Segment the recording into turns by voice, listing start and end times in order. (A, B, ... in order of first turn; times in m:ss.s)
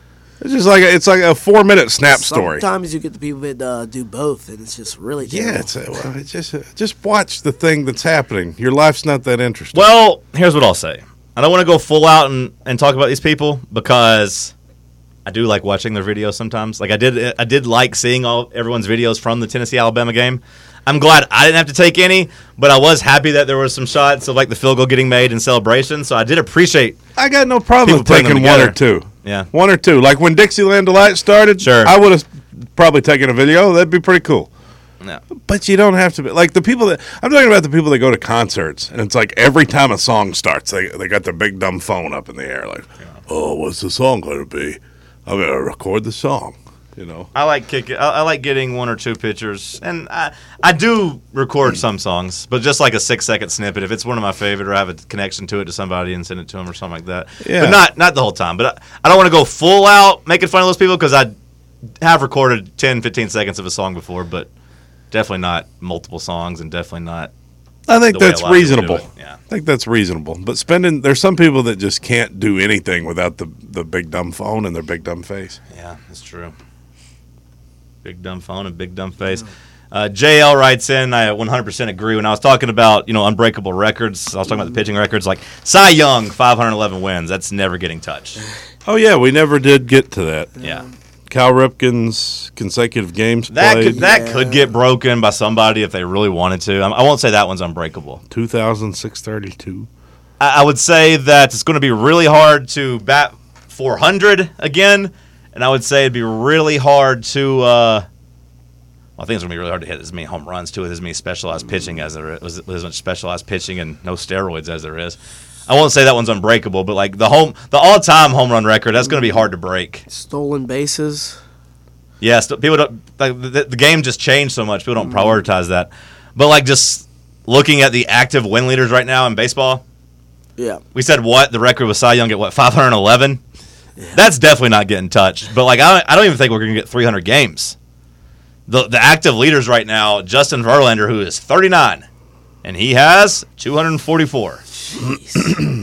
0:00.4-0:02.6 A
0:02.1-0:05.8 B
0:05.2-0:09.9 A
0:09.7-0:14.5 C
0:15.2-0:27.0 C
0:27.2-0:34.5 A
0:27.8-0:29.5 C
0:31.6-0:32.0 C
0:35.4-0:47.3 A
0:47.3-1:01.3 C
0:57.4-0:57.8 A
1:02.0-1:04.5 C
1:05.1-1:07.3 C
1:07.9-1:15.6 A
1:08.1-1:09.4 C
1:15.7-1:16.5 C
1:18.0-1:28.4 C
1:28.8-1:30.5 A
1:31.3-1:34.0 A
1:33.5-1:38.2 C
1:33.9-1:34.7 B
1:38.3-1:39.9 A
1:40.4-1:48.0 C
1:49.2-2:00.0 C
1:59.0-1:59.4 B
2:00.1-2:01.4 B
2:02.2-2:09.8 C
2:05.0-2:05.4 B
2:10.9-2:13.4 C
2:14.1-2:17.8 C
2:18.7-2:22.0 C
2:22.6-2:24.6 C
2:24.9-2:25.5 B